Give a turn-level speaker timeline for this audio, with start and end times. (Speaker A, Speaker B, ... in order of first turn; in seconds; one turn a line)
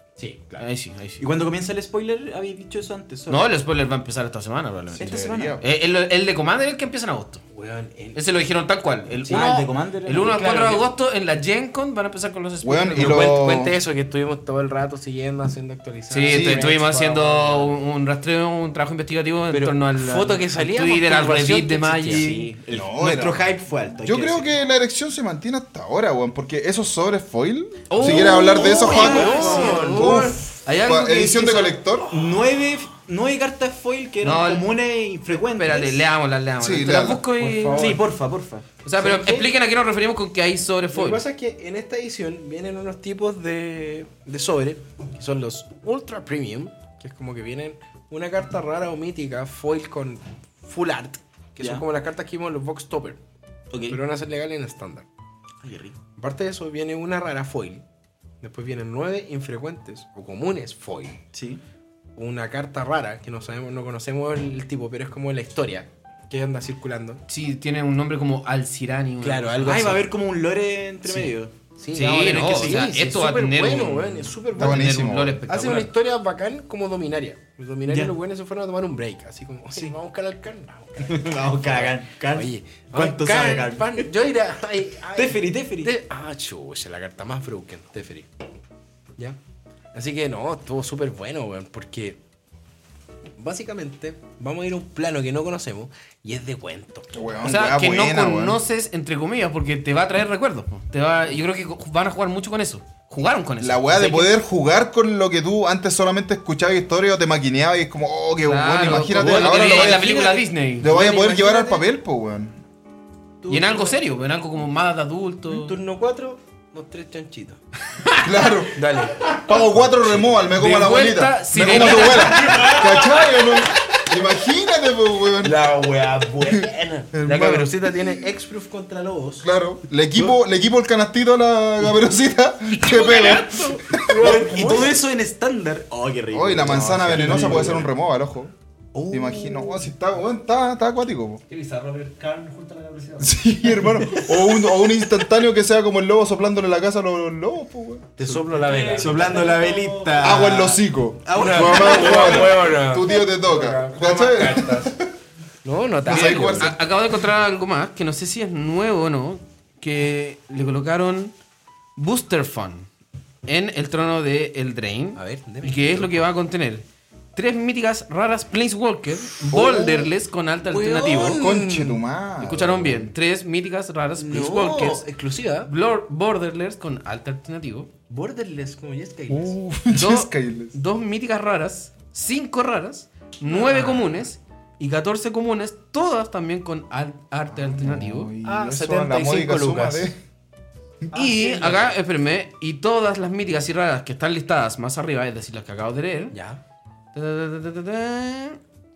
Speaker A: 0.2-0.5
Speaker B: 0.6-1.2
Speaker C: 1.2-3.5
Speaker B: 3.3-7.4
Speaker D: 4.9-5.6
Speaker C: 5.0-5.6
Speaker A: 7.5-8.2
Speaker B: 8.1-13.4
Speaker C: 9.3-10.6
Speaker A: 10.2-10.9
Speaker D: 12.6-13.7
Speaker A: 13.0-17.7
Speaker B: 16.1-22.4
Speaker D: 16.3-16.7
Speaker A: 19.5-22.5
Speaker C: 22.1-24.5
Speaker D: 22.7-23.5
Speaker D: 24.0-32.1
Speaker B: 27.9-29.8
Speaker A: 28.0-30.4
Speaker C: 28.8-30.2
Speaker B: 30.6-31.8
Speaker C: 32.1-36.0
Speaker B: 34.2-34.7
Speaker B: 35.5-38.0
Speaker D: 36.6-37.2
Speaker A: 37.4-38.0
Speaker C: 37.7-38.6
Speaker B: 38.8-41.2
Speaker A: 39.0-39.5
Speaker A: 40.9-53.2
Speaker C: 53.7-54.0
Speaker A: 53.9-55.0
Speaker C: 55.6-56.0
Speaker A: 56.2-57.8
Speaker A: 58.4-61.2
Speaker C: 61.3-61.6
Speaker A: 62.2-67.2
Speaker B: 67.3-70.0
Speaker A: 69.2-70.1
Speaker C: 69.6-72.9
Speaker A: 71.1-88.3
Speaker B: 71.9-75.9
Speaker D: 74.5-75.4
Speaker C: 77.9-78.1
Speaker C: 79.7-80.0
Speaker C: 81.0-84.1
Speaker C: 85.2-85.9
Speaker A: 89.9-92.2
Speaker A: 93.4-97.1
Speaker D: 97.1-98.6
Speaker B: 97.4-104.3
Speaker D: 103.6-112.6
Speaker B: 108.4-111.7
Speaker A: 109.2-110.4
Speaker A: 111.0-111.5
Speaker A: 113.4-114.0
Speaker B: 113.5-115.8
Speaker A: 115.5-117.6
Speaker B: 117.9-118.7
Speaker D: 118.2-118.8
Speaker A: 118.7-120.3
Speaker B: 119.2-119.5
Speaker D: 119.3-125.7
Speaker B: 120.5-123.1
Speaker A: 125.4-129.5
Speaker D: 126.4-128.3
Speaker D: 129.4-134.5
Speaker A: 132.7-135.0
Speaker C: 134.1-137.9
Speaker D: 136.3-138.5
Speaker A: 136.7-137.9
Speaker A: 138.9-139.9
Speaker D: 139.1-141.4
Speaker E: 141.5-143.4
Speaker D: 143.2-148.4
Speaker A: 148.2-149.7
Speaker E: 148.5-150.5
Speaker C: 148.9-152.6
Speaker D: 150.2-155.1
Speaker A: 151.3-154.9
Speaker A: 155.6-156.8
Speaker D: 156.0-156.8
Speaker B: 156.1-161.3
Speaker B: 161.9-162.9
Speaker B: 163.4-166.8
Speaker A: 165.1-166.2
Speaker B: 167.3-171.4
Speaker D: 169.5-170.1
Speaker A: 170.7-172.0
Speaker D: 171.4-173.1
Speaker B: 172.4-175.0
Speaker A: 174.2-175.7
Speaker B: 175.6-177.9
Speaker A: 178.1-179.6
Speaker D: 179.3-180.8
Speaker B: 179.9-188.3
Speaker D: 187.6-190.2
Speaker A: 188.4-190.1
Speaker E: 191.1-191.9
Speaker B: 191.1-196.3
Speaker A: 196.3-196.6
Speaker B: 197.1-198.6